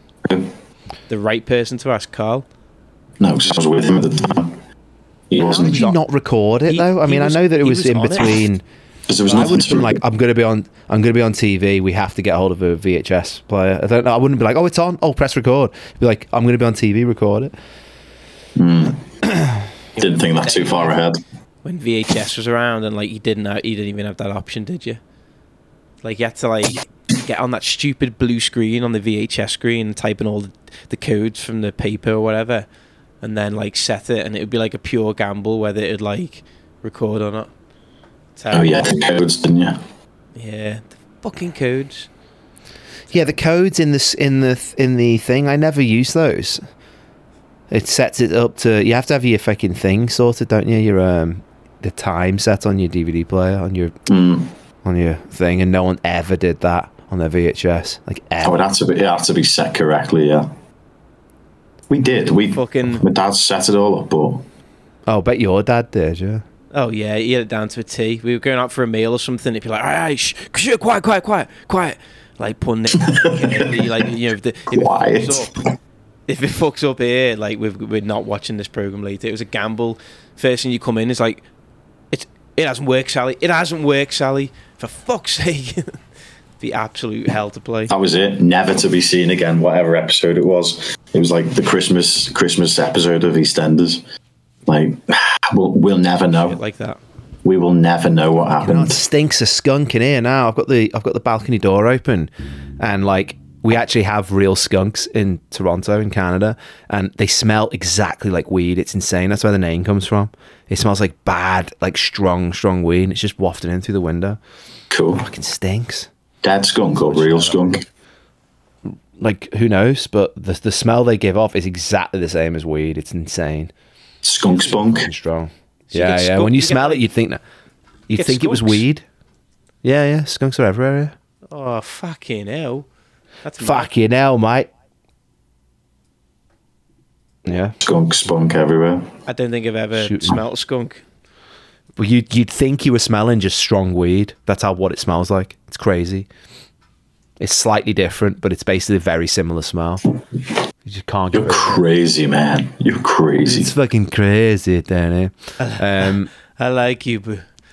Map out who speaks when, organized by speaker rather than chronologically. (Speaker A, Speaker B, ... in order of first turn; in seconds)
Speaker A: 0.3-0.5, 3.2-4.6, 5.3-5.9, 9.1-10.0, 18.6-19.1, 20.0-21.2, 38.5-39.8, 54.1-54.5, 58.4-60.5, 61.9-64.5, 73.0-74.0, 74.7-75.6, 87.9-94.0, 94.7-96.6, 97.4-99.0, 114.9-115.3, 116.4-117.8, 124.2-125.1, 137.8-139.1, 151.3-153.7
Speaker B: 1.1-2.5, 5.6-6.0, 6.7-8.4, 20.0-21.0, 21.6-25.0, 26.0-32.7, 33.2-37.5, 38.4-38.8, 40.4-42.1, 62.5-63.0, 66.7-75.5, 76.3-81.5, 82.1-86.0, 86.6-87.9, 96.3-97.0, 125.9-127.0, 128.1-128.8, 131.5-132.9, 133.4-133.9, 139.3-141.0, 155.6-157.4
Speaker C: 5.4-8.6, 9.3-17.5, 19.3-19.6, 43.1-46.6, 47.7-53.9, 54.8-58.6, 65.1-66.4, 98.6-114.4, 115.2-116.1, 117.0-117.7, 119.2-123.7, 124.5-127.4, 128.1-129.0, 129.8-131.1, 133.6-134.7, 137.5-137.8, 140.0-140.4, 142.0-146.3, 147.4-150.0, 150.8-151.8, 153.4-156.3